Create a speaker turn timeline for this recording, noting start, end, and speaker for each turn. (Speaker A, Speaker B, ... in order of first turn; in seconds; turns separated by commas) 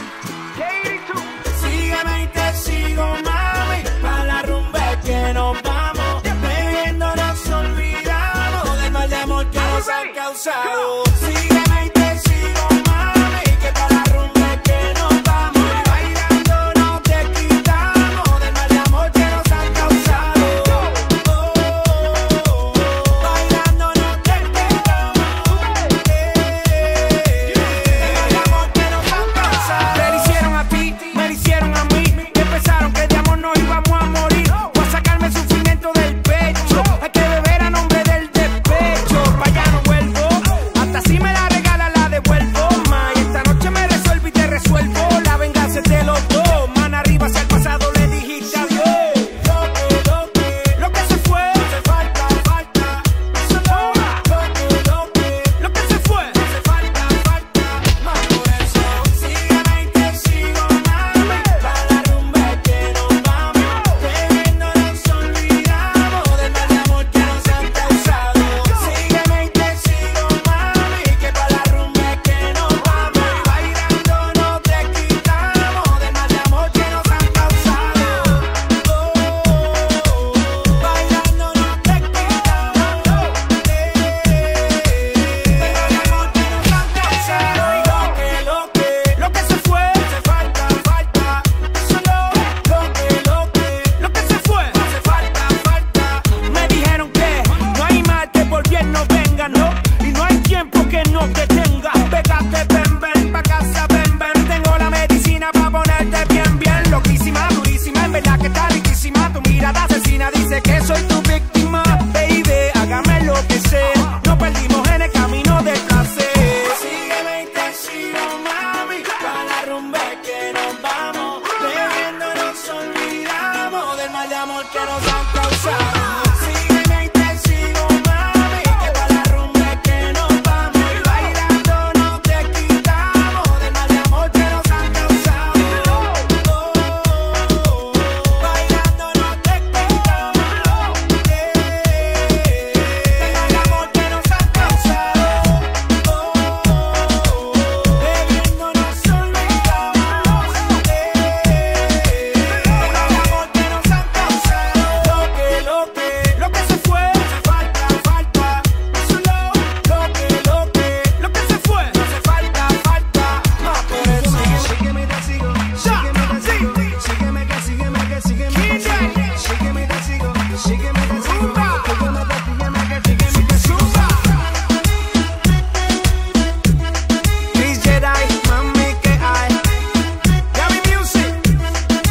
Speaker A: 0.6-174.4, Speaker A: 177.5-179.6, Speaker A: 180.5-181.5